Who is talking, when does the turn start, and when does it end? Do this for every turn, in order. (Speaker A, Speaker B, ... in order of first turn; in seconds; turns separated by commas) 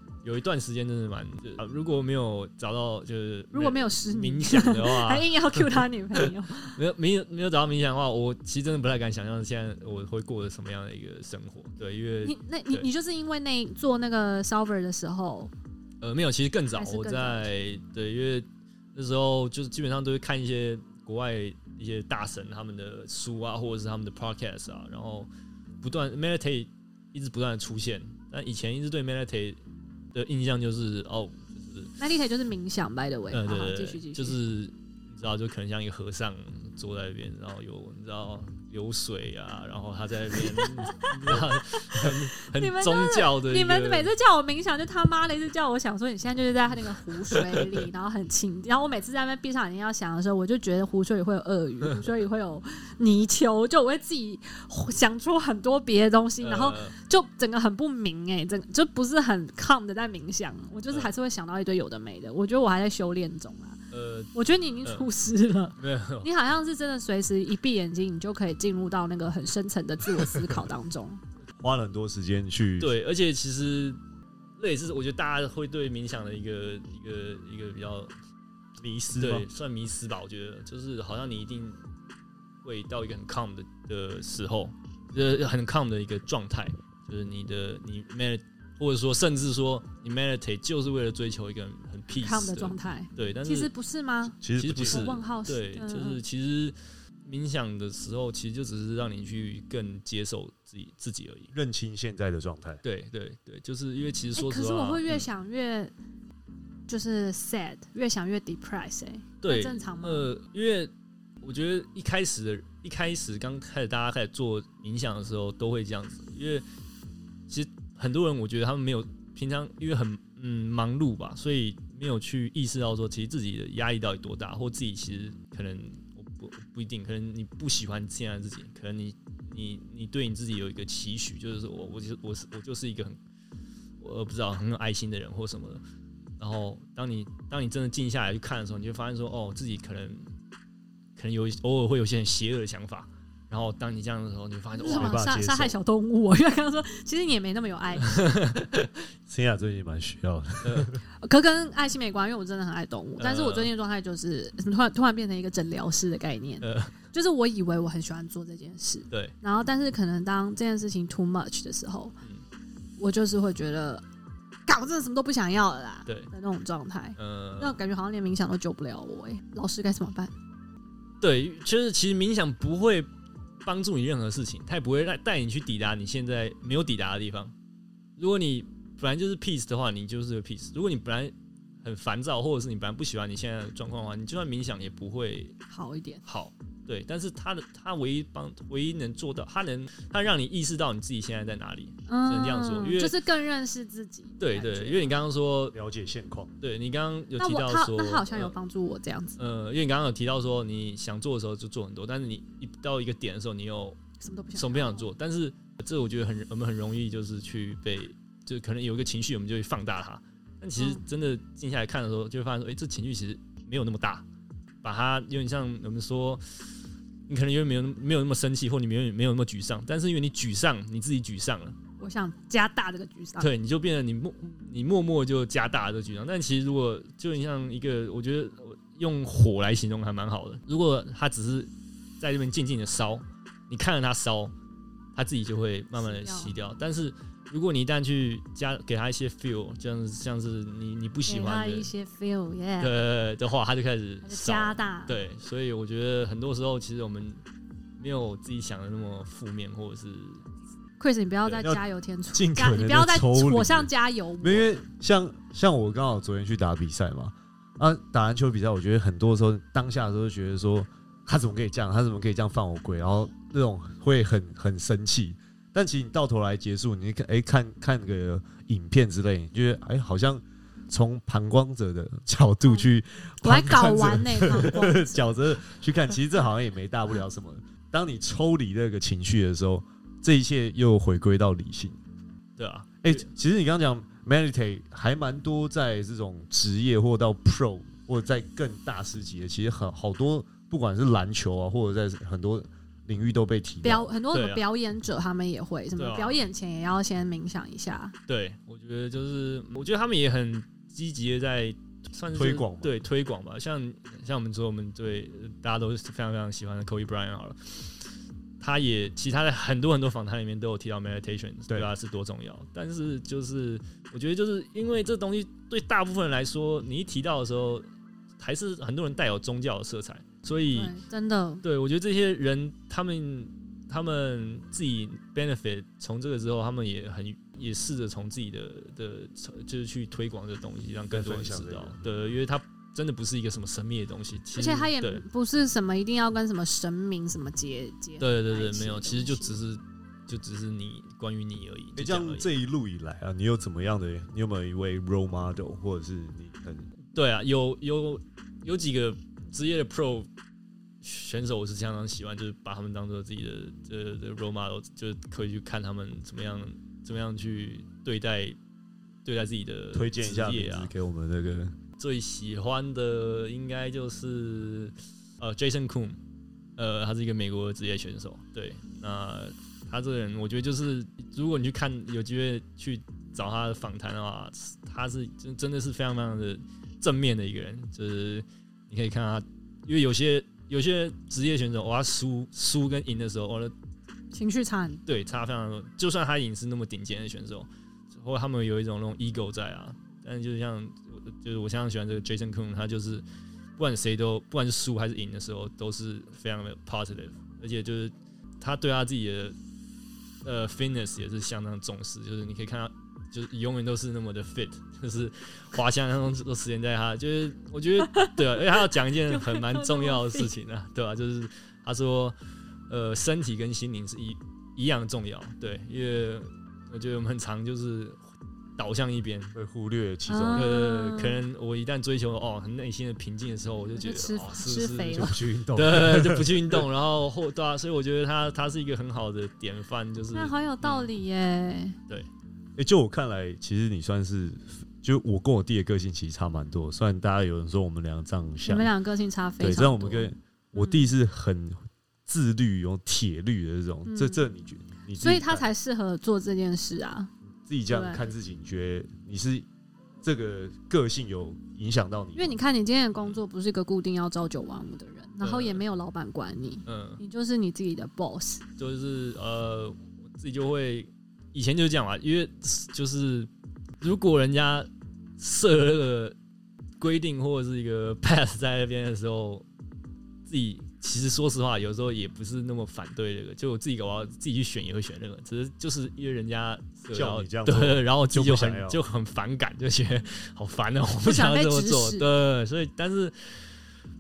Speaker A: 0.2-12.9, Speaker B: 3.5-6.8, Speaker B: 12.2-15.5, Speaker A: 16.0-25.3, Speaker B: 16.8-17.5, Speaker A: 25.8-29.6, Speaker A: 30.1-31.9, Speaker B: 32.0-34.4, Speaker A: 33.3-44.1, Speaker B: 40.3-63.8, Speaker A: 56.4-57.0, Speaker A: 63.9-64.3, Speaker B: 64.3-71.2, Speaker A: 64.8-65.1, Speaker A: 65.8-66.3, Speaker C: 71.6-72.9, Speaker A: 72.8-74.0, Speaker A: 74.6-78.1, Speaker C: 78.8-79.5, Speaker A: 79.2-81.8, Speaker A: 82.6-93.7, Speaker B: 92.1-96.2, Speaker C: 94.4-95.1, Speaker A: 94.6-101.5, Speaker C: 101.5-102.8, Speaker A: 102.8-105.3, Speaker B: 104.4-105.9, Speaker B: 106.9-110.3, Speaker A: 109.4-110.9, Speaker A: 111.4-116.6, Speaker A: 117.5-133.2, Speaker A: 134.0-135.8, Speaker A: 136.4-140.3, Speaker A: 141.2-145.2, Speaker B: 144.8-148.2, Speaker C: 144.9-145.8, Speaker A: 148.0-148.9, Speaker C: 149.3-151.0, Speaker A: 150.6-150.9, Speaker B: 151.2-162.2, Speaker A: 153.2-153.7, Speaker A: 156.6-156.9, Speaker B: 163.0-164.1, Speaker B: 164.7-170.3, Speaker A: 167.2-167.8, Speaker A: 171.2-173.1, Speaker A: 173.7-177.5, Speaker A: 178.2-185.6, Speaker B: 185.7-186.2, Speaker A: 186.2-193.2, Speaker B: 192.1-195.2, Speaker A: 194.4-195.8, Speaker C: 195.7-196.5, Speaker A: 196.6-198.5, Speaker B: 197.4-199.4, Speaker A: 199.4-204.0, Speaker B: 204.2-205.1, Speaker A: 204.6-214.2, Speaker B: 210.8-211.1, Speaker A: 214.8-216.7, Speaker A: 217.3-221.8, Speaker B: 222.0-223.5, Speaker A: 223.4-234.5, Speaker A: 235.2-241.9, Speaker B: 236.0-236.5, Speaker B: 241.3-242.9, Speaker A: 242.8-247.4, Speaker B: 244.2-245.2, Speaker A: 248.0-250.5, Speaker B: 251.0-254.7, Speaker C: 252.3-282.0, Speaker B: 273.4-275.2, Speaker A: 282.6-283.3, Speaker C: 283.0-294.1, Speaker B: 293.8-298.1, Speaker A: 294.3-294.6, Speaker A: 296.0-296.4, Speaker A: 298.3-308.1, Speaker C: 302.3-303.0, Speaker A: 308.6-317.9, Speaker A: 318.4-320.9, Speaker B: 320.7-321.6, Speaker A: 321.6-335.2, Speaker C: 331.1-332.1, Speaker B: 334.6-339.6, Speaker A: 338.2-342.5, Speaker C: 342.0-346.9, Speaker A: 347.1-350.3, Speaker A: 351.0-358.6, Speaker A: 359.2-360.9, Speaker C: 359.9-361.8, Speaker A: 362.0-366.2, Speaker A: 366.8-383.7, Speaker B: 384.3-385.0, Speaker A: 385.1-393.2, Speaker A: 393.8-399.6, Speaker A: 400.4-412.4, Speaker B: 408.1-408.4, Speaker B: 409.3-410.5, Speaker A: 412.9-418.2, Speaker A: 418.8-419.6, Speaker C: 419.6-420.7, Speaker B: 420.3-421.4, Speaker A: 420.5-431.1, Speaker B: 424.0-425.4, Speaker C: 425.1-426.9, Speaker B: 430.3-432.0, Speaker C: 432.8-438.9, Speaker B: 438.6-441.1, Speaker C: 439.6-445.7, Speaker B: 444.1-444.4, Speaker B: 445.2-447.3, Speaker C: 447.5-449.7, Speaker B: 447.9-448.2, Speaker C: 450.2-452.6, Speaker B: 452.4-458.6, Speaker A: 455.4-455.8, Speaker A: 456.9-457.2, Speaker A: 458.8-463.5, Speaker A: 464.0-466.4, Speaker A: 467.0-469.7, Speaker A: 470.5-483.6, Speaker C: 477.1-479.0, Speaker B: 481.2-482.3